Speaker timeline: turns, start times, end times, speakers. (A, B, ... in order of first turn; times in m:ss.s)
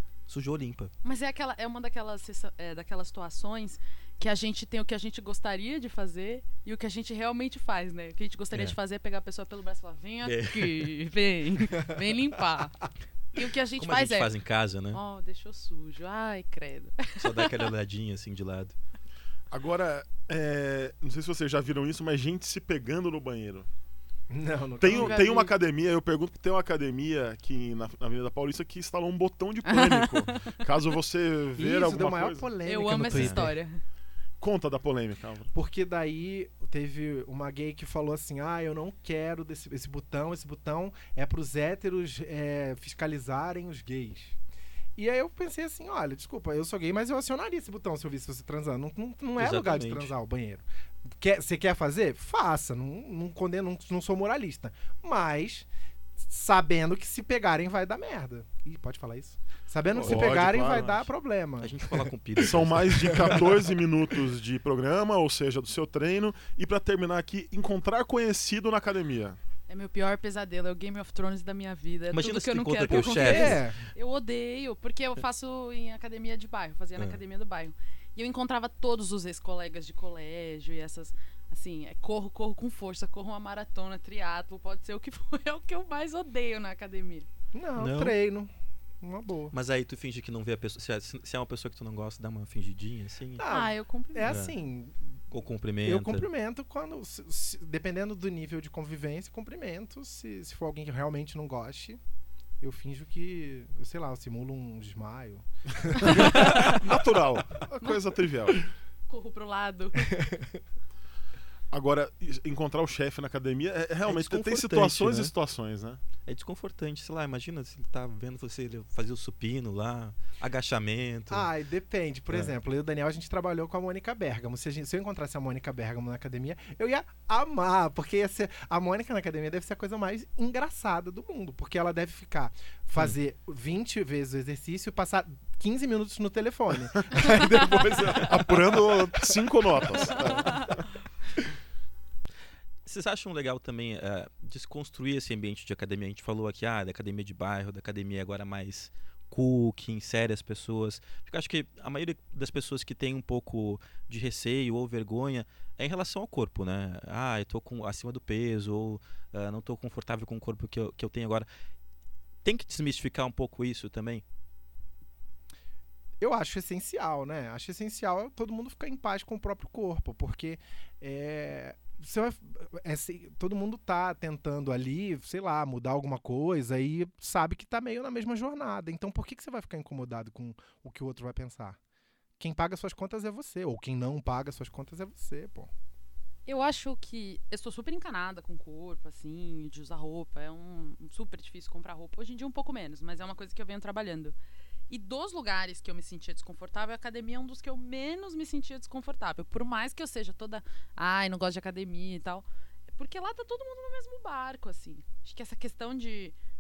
0:00.3-0:00.9 A
0:01.0-0:14.3 B
0:10.2-0:11.0 A
0:13.8-0:15.0 A
0:14.9-0:17.7 B
0:17.2-0:18.8 A
0:19.5-0:23.7 C
0:24.3-0:25.3 D
0:24.8-0:32.5 C
0:24.9-0:25.5 B
0:29.6-0:30.6 B
0:31.6-0:33.6 D
0:32.6-0:33.8 B
0:33.1-0:33.5 A
0:34.4-0:35.5 C
0:35.5-0:44.4 D
0:45.0-1:02.1 D
0:49.4-0:50.1 A
0:59.9-1:01.1 C
1:00.0-1:00.3 A
1:01.6-1:03.5 A
1:02.4-1:09.4 C
1:03.0-1:03.7 D
1:09.7-1:27.3 B
1:12.1-1:13.6 A
1:13.1-1:13.8 D
1:27.5-1:29.5 D
1:27.8-1:28.2 A
1:29.5-1:33.4 A
1:33.4-1:35.2 D
1:33.5-1:34.4 B
1:34.3-1:34.5 A
1:35.3-1:36.3 A
1:35.8-1:42.0 D
1:42.6-1:46.8 D
1:46.1-1:46.8 B
1:46.1-1:48.7 C
1:49.1-1:50.1 B
1:50.1-1:50.6 D
1:51.7-1:56.0 C
1:54.0-1:55.3 A
1:56.2-2:01.5 A
2:01.3-2:20.6 D
2:17.1-2:20.8 C
2:22.9-2:41.5 A
2:42.4-2:44.2 A
2:46.2-3:01.8 D
3:02.4-3:05.7 D
3:06.5-3:14.4 B
3:14.9-3:26.4 B